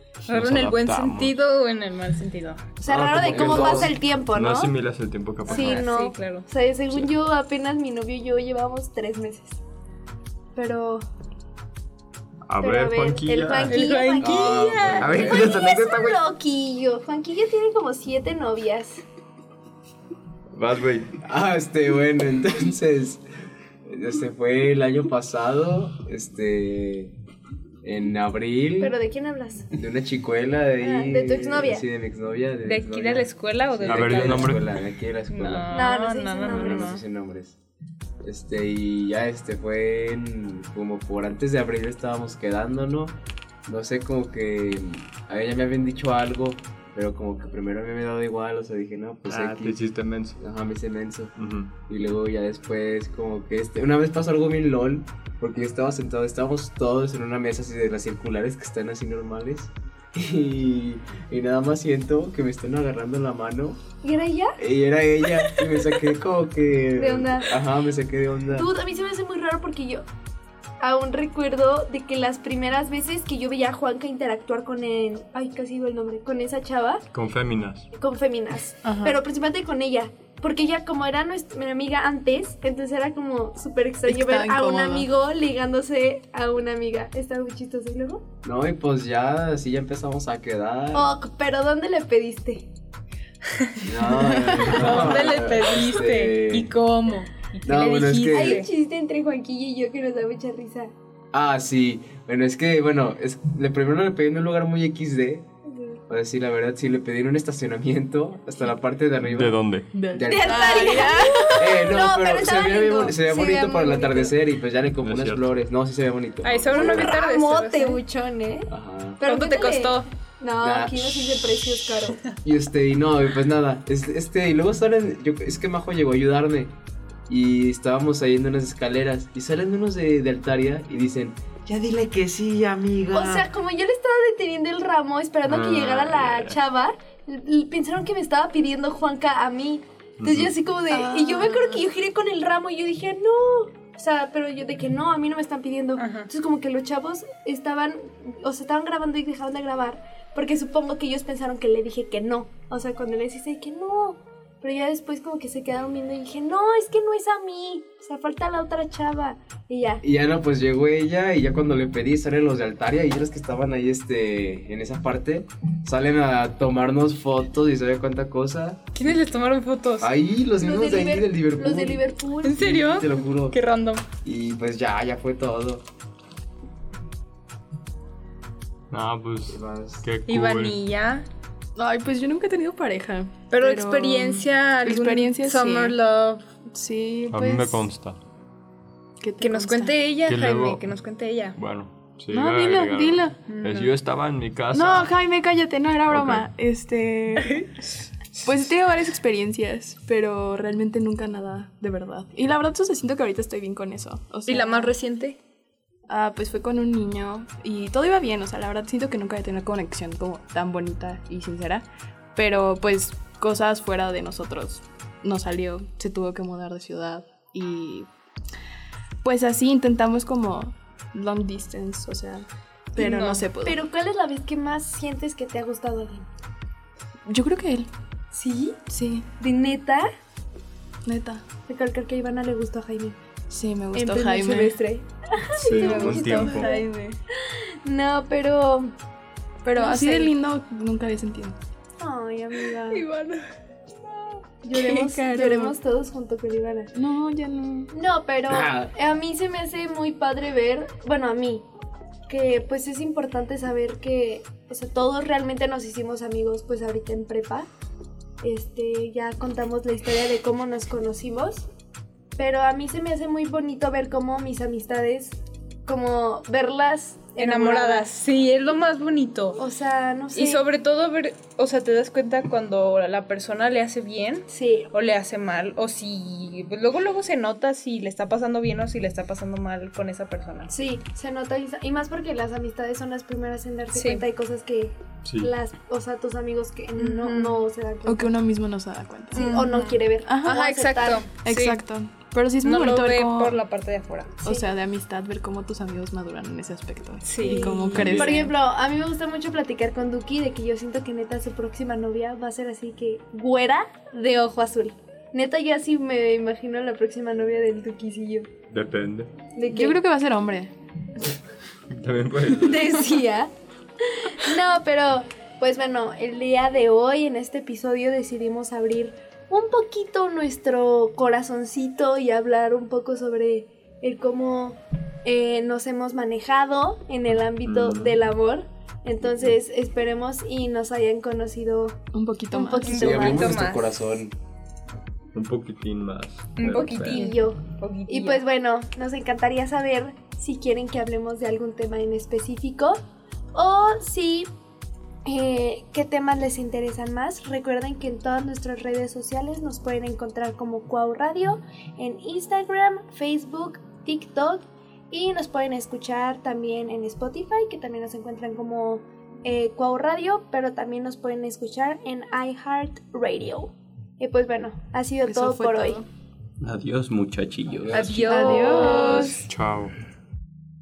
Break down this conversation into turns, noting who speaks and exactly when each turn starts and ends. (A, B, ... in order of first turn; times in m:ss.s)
0:00.2-0:01.4 A
0:00.3-0:02.7 B
0:02.8-0:05.9 A
0:02.8-0:04.7 C
0:03.1-0:03.9 D
0:05.5-0:06.5 B
0:05.5-0:09.6 C
0:10.6-0:11.0 C
0:12.4-0:13.8 A
0:12.6-0:19.0 C
0:13.7-0:15.5 B
0:14.2-0:16.2 D
0:20.5-0:21.2 A
0:21.2-0:23.2 D
0:23.8-0:27.2 D
0:27.8-0:28.9 D
0:28.8-0:29.7 C
0:29.8-0:35.9 D
0:30.8-0:31.8 C
0:32.6-0:34.6 B
0:33.9-0:34.6 A
0:35.3-0:37.0 B
0:35.8-0:36.9 C
0:36.4-0:37.6 D
0:38.2-0:49.8 D
0:49.3-0:50.4 A
0:50.4-0:51.3 D
0:51.4-0:51.7 A
0:51.9-1:03.8 D
1:04.0-1:04.5 C
1:04.6-1:08.7 D
1:05.4-1:05.9 C
1:07.0-1:07.6 C
1:08.6-1:10.0 C
1:10.8-1:17.0 C
1:17.1-1:17.9 A
1:17.9-1:28.2 C
1:18.8-1:19.2 E
1:24.0-1:25.1 E
1:28.4-1:31.1 D
1:30.9-1:32.7 C
1:33.8-1:36.7 D
1:34.2-1:35.0 E
1:34.6-1:35.2 C
1:34.7-1:38.7 B
1:37.6-1:38.6 D
1:38.3-1:40.9 C
1:41.3-1:45.5 D
1:45.7-1:46.0 C
1:46.1-1:49.6 D
1:49.2-1:49.9 A
1:49.9-1:51.6 E
1:50.1-1:57.2 D
1:50.3-1:54.4 C
1:55.0-1:55.5 A
1:56.4-1:58.0 B
1:56.7-2:02.2 C
1:58.7-1:59.2 D
1:59.2-2:00.0 B
2:00.6-2:01.0 D
2:02.4-2:06.7 D
2:07.3-2:13.5 D
2:13.1-2:40.0 C
2:15.5-2:16.6 A
2:20.2-2:20.5 A
2:20.9-2:21.8 E
2:26.0-2:26.3 B
2:40.0-2:49.0 D
2:49.0-2:50.1 B
2:50.0-2:52.0 D
2:50.6-2:52.6 C
2:52.4-2:54.0 B
2:52.5-2:53.6 D
2:54.2-2:55.8 D
2:58.9-3:00.8 A
2:59.5-3:00.0 D
3:00.3-3:01.2 B
3:01.8-3:06.0 E
3:03.5-3:06.4 B
3:06.7-3:07.9 E
3:07.3-3:08.2 A
3:09.2-3:10.0 E
3:09.4-3:11.6 B
3:10.2-3:10.8 A
3:11.5-3:15.1 A
3:12.3-3:13.4 E
3:13.5-3:13.9 B
3:14.7-3:17.7 E
3:16.1-3:16.4 A
3:18.4-3:24.9 E
3:24.5-3:25.4 B
3:26.1-3:38.1 E
3:39.2-3:43.8 E
3:43.0-3:46.3 C
3:43.0-3:43.4 B
3:47.2-3:47.9 E
3:48.3-3:48.8 C
3:48.9-3:49.2 E
3:49.4-3:50.1 C
3:51.0-3:51.4 E
3:51.7-3:53.2 C
3:53.5-3:54.8 E
3:53.9-3:56.9 C
3:55.6-3:56.8 A
3:55.6-3:57.2 E
3:57.8-3:58.9 C
3:59.6-4:00.4 C
3:59.7-4:01.6 E
4:02.0-4:03.0 C
4:02.9-4:03.4 B
4:04.6-4:06.9 C
4:04.8-4:05.7 E
4:07.0-4:07.9 E
4:07.9-4:11.6 C
4:08.5-4:08.9 D
4:12.3-4:17.7 C
4:18.4-4:21.7 C
4:22.4-4:28.1 C
4:27.4-4:29.6 B
4:29.6-4:30.6 C
4:30.3-4:40.7 B
4:34.5-4:34.9 C
4:40.7-4:48.3 C
4:43.9-4:44.2 B
4:45.2-4:45.5 A
4:47.0-4:47.6 B
4:48.0-4:49.6 E
4:49.3-4:51.2 C
4:49.3-4:51.8 B
4:50.2-4:50.5 E
4:51.3-4:53.6 E
4:52.6-4:54.4 B
4:54.4-4:58.5 E
4:57.2-4:58.0 B
4:57.4-5:08.5 C
4:57.9-4:58.4 F
5:08.7-5:09.4 A
5:09.5-5:10.0 C
5:09.7-5:10.7 E
5:11.9-5:13.0 A
5:12.6-5:13.5 C
5:14.2-5:32.0 C
5:27.3-5:28.2 A
5:32.1-5:32.9 E
5:32.5-5:33.6 C
5:32.8-5:33.8 B
5:32.9-5:34.3 D
5:35.3-5:37.2 A
5:36.6-5:38.4 B
5:36.6-5:43.0 C
5:43.5-5:44.5 C
5:45.2-6:06.0 C
6:05.2-6:06.1 E
6:06.6-6:08.0 F
6:07.8-6:08.7 D
6:07.9-6:09.5 B
6:08.0-6:09.5 E
6:08.2-6:09.3 C
6:09.4-6:09.9 A